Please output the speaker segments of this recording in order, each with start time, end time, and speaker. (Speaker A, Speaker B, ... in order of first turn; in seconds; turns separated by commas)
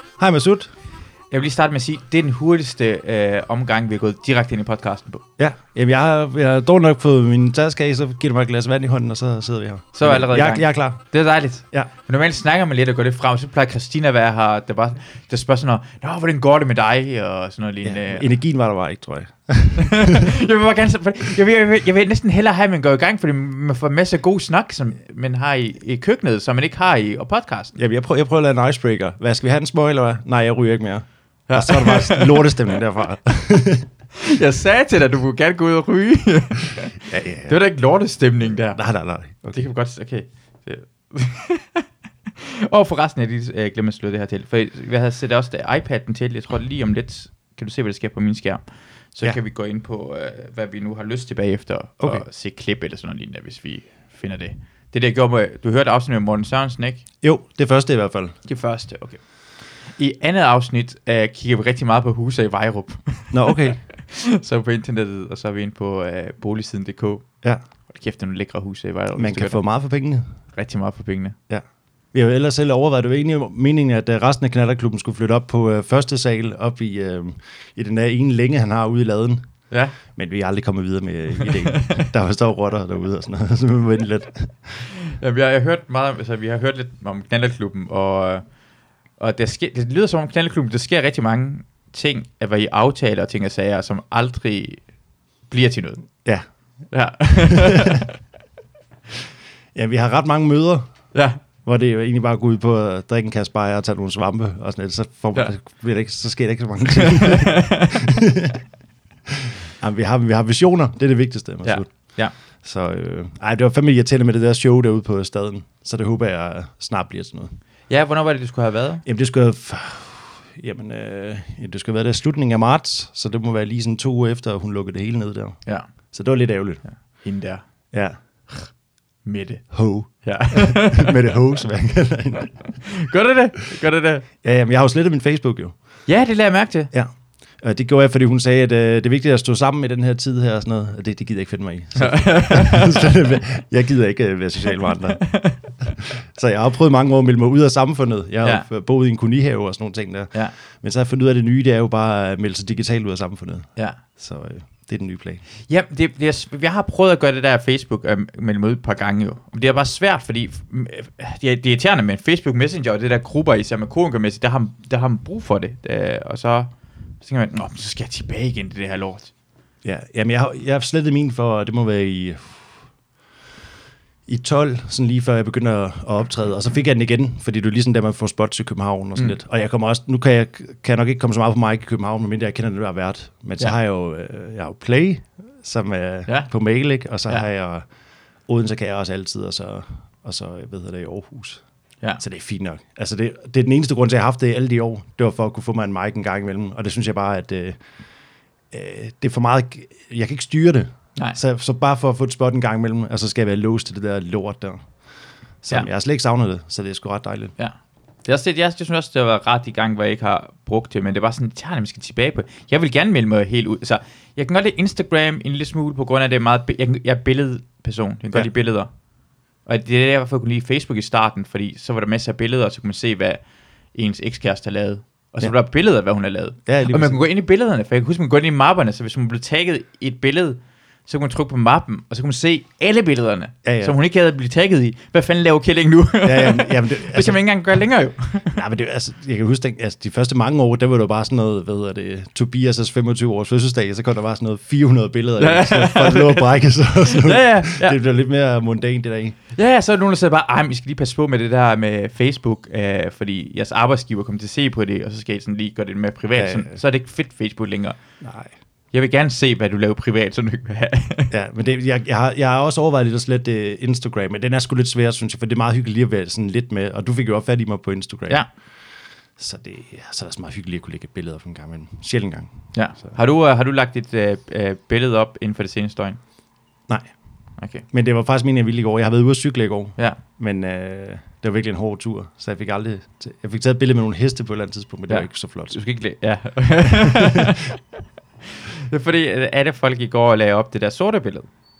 Speaker A: 0.2-0.7, Speaker B: 1.3-5.2, Speaker A: 5.4-11.0, Speaker B: 9.9-18.3, Speaker A: 17.8-20.3, Speaker B: 19.8-27.7, Speaker A: 27.8-33.9, Speaker B: 31.5-32.5, Speaker B: 34.2-38.8, Speaker A: 37.0-37.6, Speaker A: 38.4-39.6, Speaker B: 39.5-41.8, Speaker B: 42.4-48.6, Speaker B: 49.1-57.0, Speaker A: 57.2-58.4, Speaker B: 58.5-59.2, Speaker B: 60.0-67.2, Speaker A: 63.3-63.8, Speaker B: 67.9-69.6, Speaker A: 69.1-70.2, Speaker B: 70.5-71.3, Speaker A: 71.5-79.4, Speaker B: 79.7-80.0, Speaker A: 80.1-84.8, Speaker B: 81.7-82.0, Speaker B: 85.2-88.4, Speaker B: 89.2-94.8, Speaker B: 95.5-96.0, Speaker B: 96.9-98.1, Speaker A: 97.5-98.0, Speaker A: 99.7-100.9, Speaker B: 101.1-101.4, Speaker A: 101.6-108.6, Speaker B: 107.0-107.9, Speaker A: 109.3-111.9, Speaker B: 111.6-112.3, Speaker A: 112.6-117.5, Speaker B: 117.9-119.0, Speaker A: 119.0-125.6, Speaker A: 126.1-126.8, Speaker B: 126.9-127.6, Speaker A: 127.9-128.2, Speaker B: 129.2-129.6, Speaker A: 129.7-132.5, Speaker B: 130.2-131.3, Speaker B: 132.9-134.2, Speaker A: 134.4-135.7, Speaker B: 136.1-136.9, Speaker A: 136.9-155.4, Speaker B: 142.0-143.1, Speaker B: 145.2-145.6, Speaker B: 155.7-169.3, Speaker A: 169.8-172.7, Speaker A: 174.3-187.9, Speaker A: 188.5-191.6, Speaker A: 192.2-197.8, Speaker A: 198.7-204.8, Speaker A: 205.6-207.5, Speaker B: 207.6-218.9, Speaker B: 219.7-223.4, Speaker B: 223.9-238.6, Speaker A: 226.7-227.2, Speaker A: 233.6-233.9, Speaker A: 236.2-237.4, Speaker A: 238.5-249.3, Speaker B: 245.4-248.0, Speaker B: 249.5-258.0, Speaker A: 256.3-256.8, Speaker A: 258.2-258.5, Speaker B: 258.9-261.3, Speaker A: 261.3-268.4, Speaker A: 269.4-272.5, Speaker B: 272.7-276.2, Speaker B: 277.6-277.8, Speaker A: 277.9-285.8, Speaker B: 285.1-287.8, Speaker A: 287.0-287.3, Speaker B: 288.6-291.5